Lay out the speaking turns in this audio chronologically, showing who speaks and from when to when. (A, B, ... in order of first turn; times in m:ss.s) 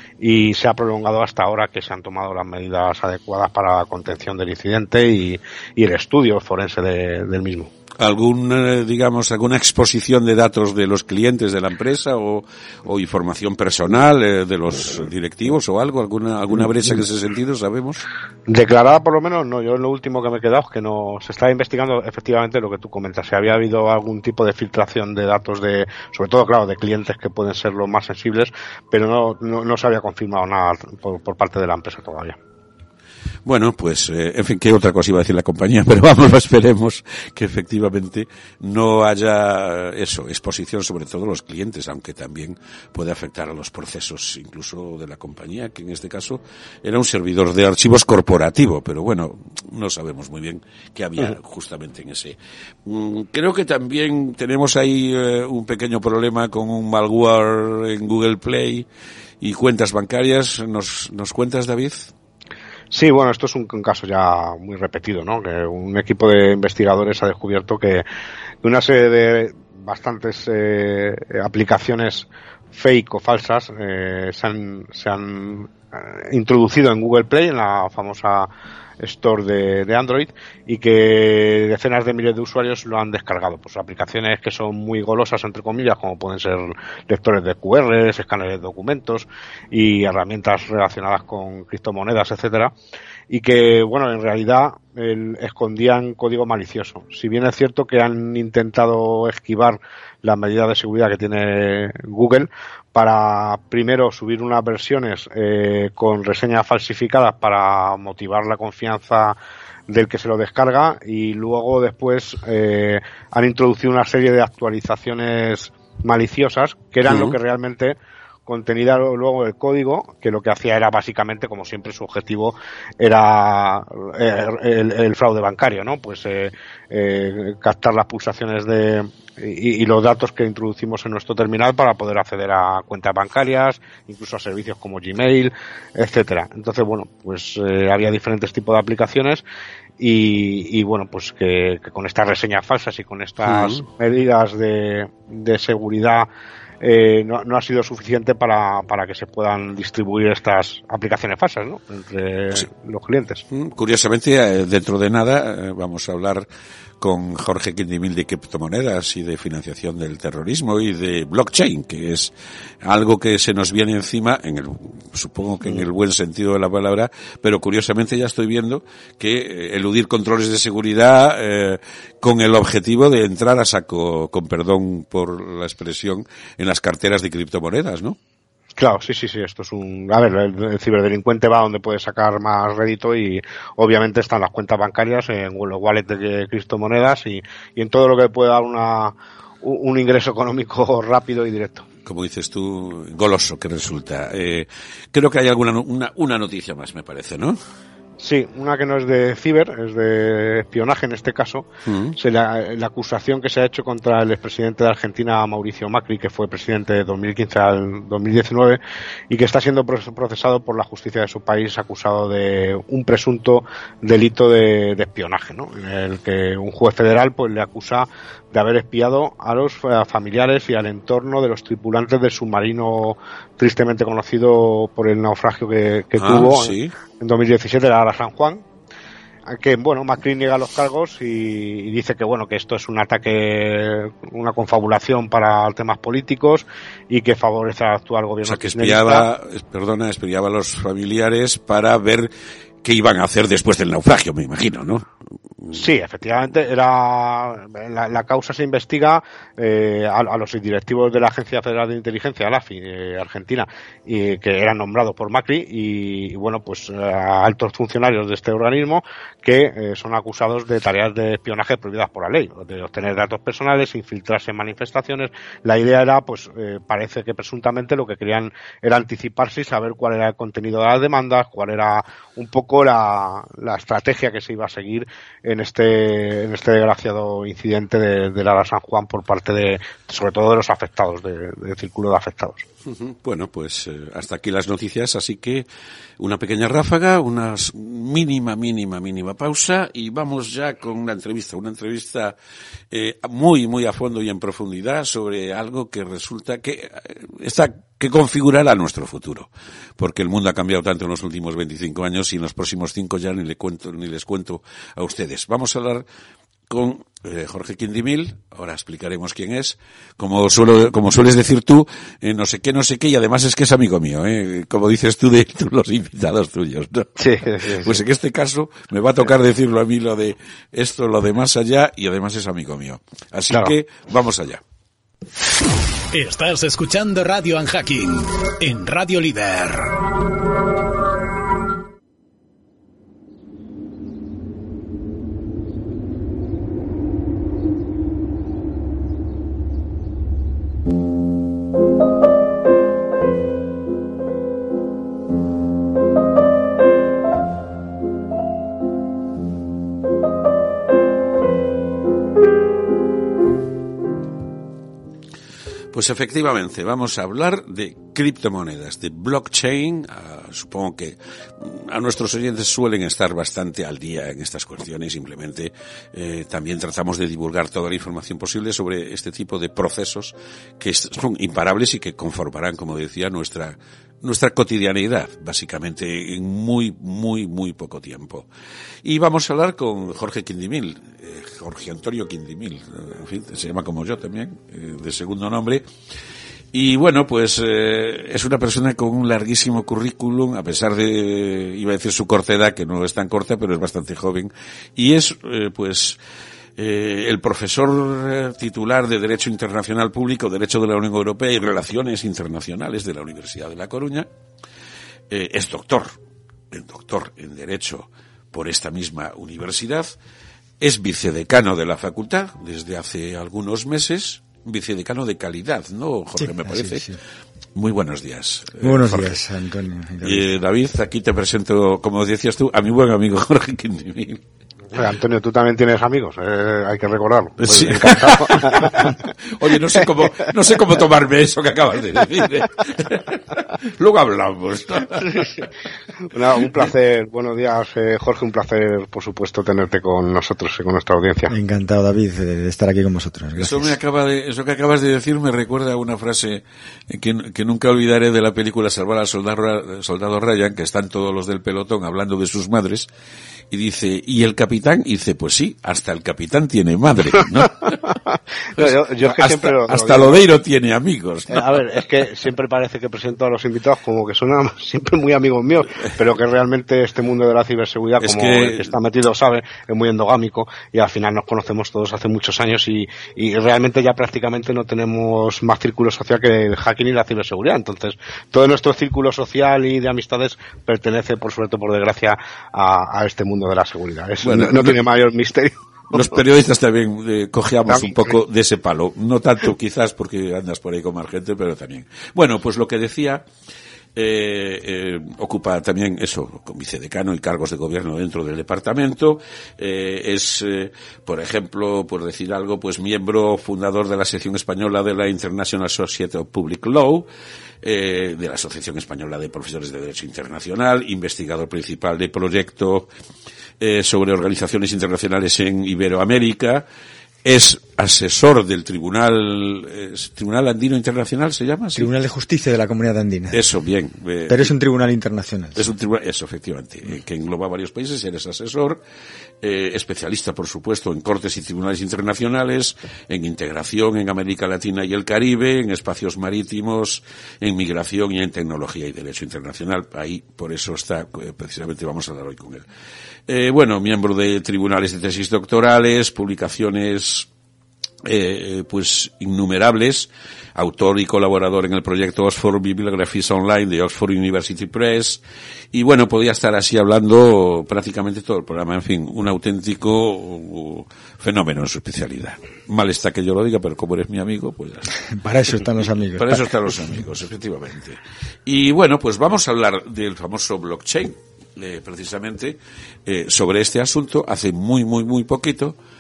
0:00.2-0:07.7 A
0:08.0-0:18.0 B
0:18.5-0:32.4 A
0:33.4-0:58.9 B
0:59.4-1:02.1 B
1:02.9-1:08.0 A
1:08.6-1:18.5 A
1:19.0-1:32.7 A
1:33.3-1:49.4 A
1:49.9-2:19.4 A
1:57.1-1:57.3 B
2:20.0-2:26.3 A
2:23.5-2:23.8 B
2:26.8-2:33.4 A
2:33.5-2:36.5 B
2:37.0-2:42.3 B
2:42.8-2:58.2 B
2:58.8-3:11.9 A
3:12.0-3:17.6 B
3:18.2-3:28.8 A
3:21.9-3:22.1 B
3:29.3-3:48.6 A
3:46.2-3:46.9 B
3:49.5-3:59.3 A
3:58.4-4:02.3 B
4:02.8-4:05.1 B
4:05.7-4:42.6 A
4:42.9-4:45.7 B
4:46.2-4:52.4 B
4:52.9-5:06.0 B
5:06.7-5:17.2 B
5:17.2-5:18.0 A
5:17.8-5:24.6 B
5:26.1-5:30.0 C
5:55.9-6:18.5 B
6:19.0-6:25.8 B
6:26.7-6:36.2 B
6:36.8-6:44.3 B
6:45.3-6:46.2 B
6:46.7-6:50.1 B
6:50.8-6:57.1 B
6:56.4-6:57.2 D
6:57.8-6:59.4 B
6:58.8-7:00.5 D
7:00.2-7:04.4 B
7:04.9-7:09.2 A
7:07.6-7:15.5 B
7:16.3-7:21.5 A
7:21.5-7:23.9 D
7:23.6-7:33.1 B
7:33.7-7:38.0 B
7:38.0-7:40.4 A
7:38.8-7:41.8 B
7:41.5-8:06.4 A
7:48.2-7:48.9 B
8:04.4-8:05.0 B
8:06.1-8:13.5 B
8:07.9-8:08.4 A
8:14.2-8:27.3 B
8:27.8-8:33.1 B
8:33.8-8:36.8 B
8:37.4-8:42.1 B
8:42.0-8:43.6 D
8:43.5-8:44.7 B
8:44.5-8:45.8 D
8:45.8-8:49.0 B
8:49.6-9:02.8 B
9:03.5-9:07.5 B
9:08.2-9:15.4 B
9:15.9-9:25.2 B
9:25.3-9:26.6 D
9:26.4-9:36.0 B